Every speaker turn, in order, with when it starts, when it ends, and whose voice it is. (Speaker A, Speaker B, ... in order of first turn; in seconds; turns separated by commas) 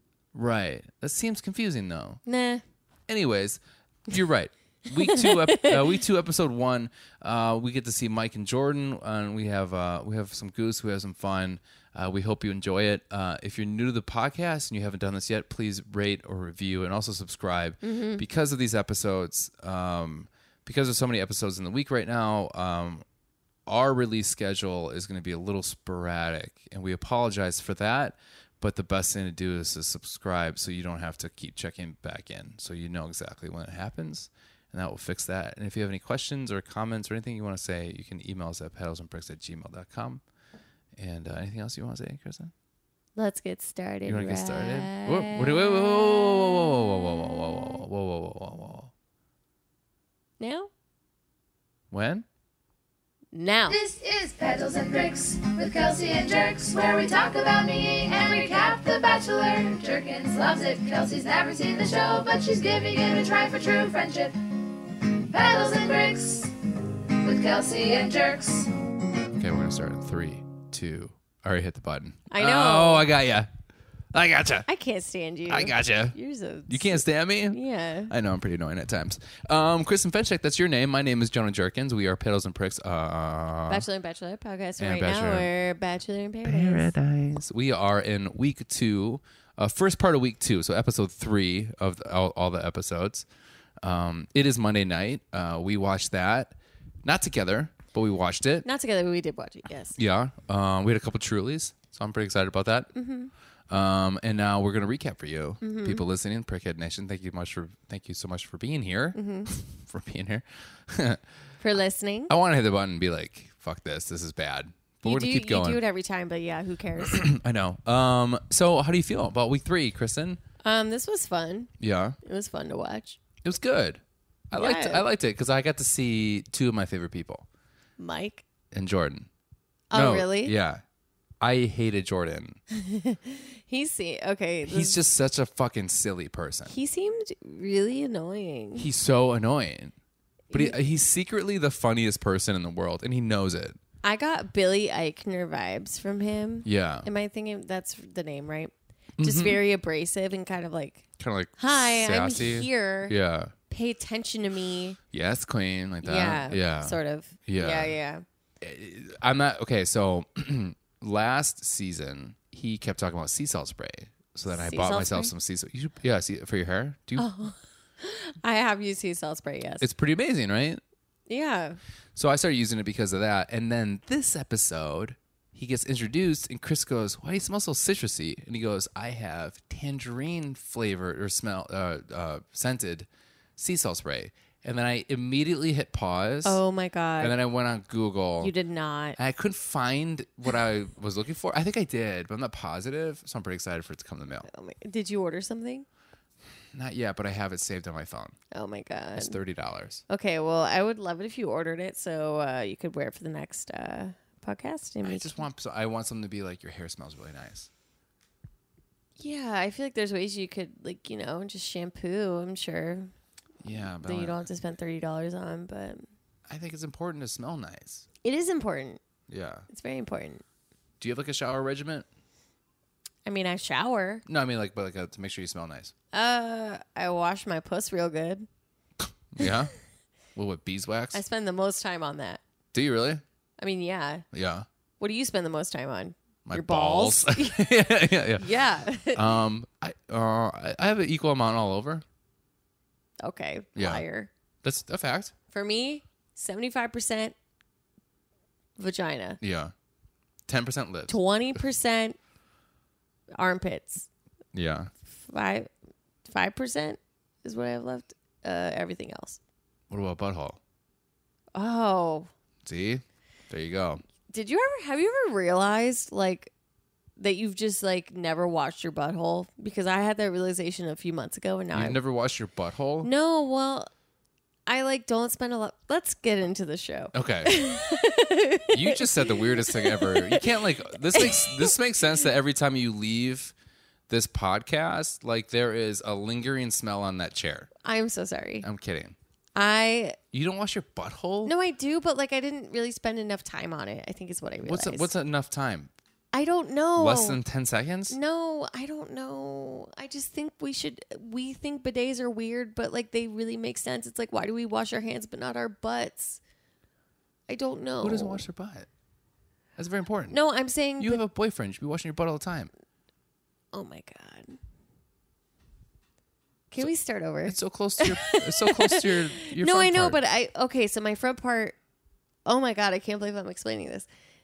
Speaker A: 0.3-2.2, Speaker B: 2.2-2.6, Speaker A: 3.1-23.0, Speaker B: 5.0-6.0, Speaker B: 17.8-18.2, Speaker A: 23.7-40.2, Speaker A: 41.0-42.5, Speaker B: 43.1-46.7, Speaker A: 44.0-48.9, Speaker B: 50.4-50.7, Speaker A: 51.9-52.2, Speaker B: 53.3-53.8, Speaker C: 53.7-64.5, Speaker C: 65.3-66.5, Speaker C: 67.2-68.7, Speaker A: 69.3-73.5, Speaker B: 72.3-73.1, Speaker A: 74.1-74.7, Speaker B: 74.7-78.1, Speaker A: 75.5-76.2, Speaker A: 76.7-83.8, Speaker B: 83.7-86.9, Speaker A: 84.8-85.5, Speaker A: 86.4-93.2, Speaker A: 93.8-98.7, Speaker B: 98.6-100.0, Speaker A: 99.9-102.9, Speaker B: 102.9-103.3, Speaker A: 103.7-111.2, Speaker B: 105.6-106.0, Speaker B: 109.1-109.5, Speaker B: 111.6-112.3, Speaker A: 112.3-115.8, Speaker B: 115.0-117.3, Speaker A: 117.0-120.4, Speaker B: 120.6-121.7, Speaker A: 121.8-122.2, Speaker B: 122.2-123.2, Speaker A: 123.4-127.5, Speaker B: 124.5-125.0, Speaker B: 128.0-128.4, Speaker A: 128.7-129.3, Speaker B: 129.9-130.5, Speaker A: 129.9-130.8, Speaker A: 131.4-132.6, Speaker B: 132.7-135.0, Speaker A: 134.7-136.7, Speaker B: 136.7-138.9, Speaker A: 138.8-139.9, Speaker B: 140.5-140.8, Speaker A: 140.5-143.8, Speaker B: 144.0-151.1, Speaker A: 146.6-147.1, Speaker A: 149.2-149.6, Speaker A: 151.2-153.5, Speaker B: 151.6-153.1, Speaker B: 153.7-155.0, Speaker A: 155.1-157.9, Speaker B: 156.0-158.2, Speaker A: 158.6-167.3, Speaker B: 164.5-165.3, Speaker B: 167.2-169.9, Speaker A: 169.8-170.8, Speaker B: 171.3-171.8, Speaker A: 172.1-186.6, Speaker B: 186.4-187.3, Speaker A: 187.2-188.5, Speaker B: 188.4-189.2, Speaker A: 189.2-194.5, Speaker B: 194.5-195.8, Speaker A: 196.7-198.3, Speaker B: 198.5-199.4, Speaker A: 199.2-200.0, Speaker B: 200.1-205.4, Speaker A: 205.0-207.7, Speaker B: 209.2-213.1, Speaker A: 213.6-214.4, Speaker B: 213.7-216.1, Speaker A: 216.5-218.0, Speaker B: 218.2-219.0, Speaker A: 219.3-219.7, Speaker B: 219.7-220.4, Speaker A: 221.0-222.1, Speaker B: 223.2-224.2, Speaker A: 224.2-225.9, Speaker B: 226.1-228.5, Speaker A: 229.3-229.7, Speaker A: 230.3-231.2, Speaker B: 231.1-232.4, Speaker A: 232.7-233.2, Speaker B: 233.6-234.2, Speaker A: 234.3-234.7, Speaker B: 235.0-237.7, Speaker A: 236.4-238.5, Speaker B: 238.4-239.3, Speaker A: 239.1-242.0, Speaker B: 243.2-244.3, Speaker A: 243.8-244.0, Speaker A: 244.6-245.3, Speaker B: 245.5-247.3, Speaker B: 248.8-249.4, Speaker A: 249.4-249.7, Speaker A: 250.5-251.2, Speaker B: 251.1-252.2, Speaker B: 253.3-254.1, Speaker A: 254.5-254.9, Speaker B: 255.1-255.7, Speaker B: 256.2-259.4, Speaker A: 259.9-260.6, Speaker B: 261.5-262.3, Speaker A: 262.6-264.0, Speaker B: 264.3-266.5, Speaker B: 267.2-272.0, Speaker A: 271.7-273.1, Speaker B: 273.0-273.9, Speaker B: 274.6-281.7, Speaker A: 277.1-277.6, Speaker A: 278.7-283.5, Speaker A: 284.1-287.7, Speaker B: 287.8-288.6, Speaker A: 288.6-289.1, Speaker B: 289.5-290.2, Speaker A: 290.3-291.5, Speaker B: 291.4-295.1, Speaker A: 294.6-295.9, Speaker B: 296.3-297.4, Speaker A: 296.9-298.2, Speaker B: 298.1-306.4, Speaker B: 307.5-308.4, Speaker A: 308.0-308.9, Speaker A: 309.8-310.4, Speaker B: 310.3-311.2, Speaker A: 311.0-312.7, Speaker B: 313.7-314.6, Speaker B: 316.7-321.8, Speaker A: 317.4-320.2, Speaker B: 322.4-324.1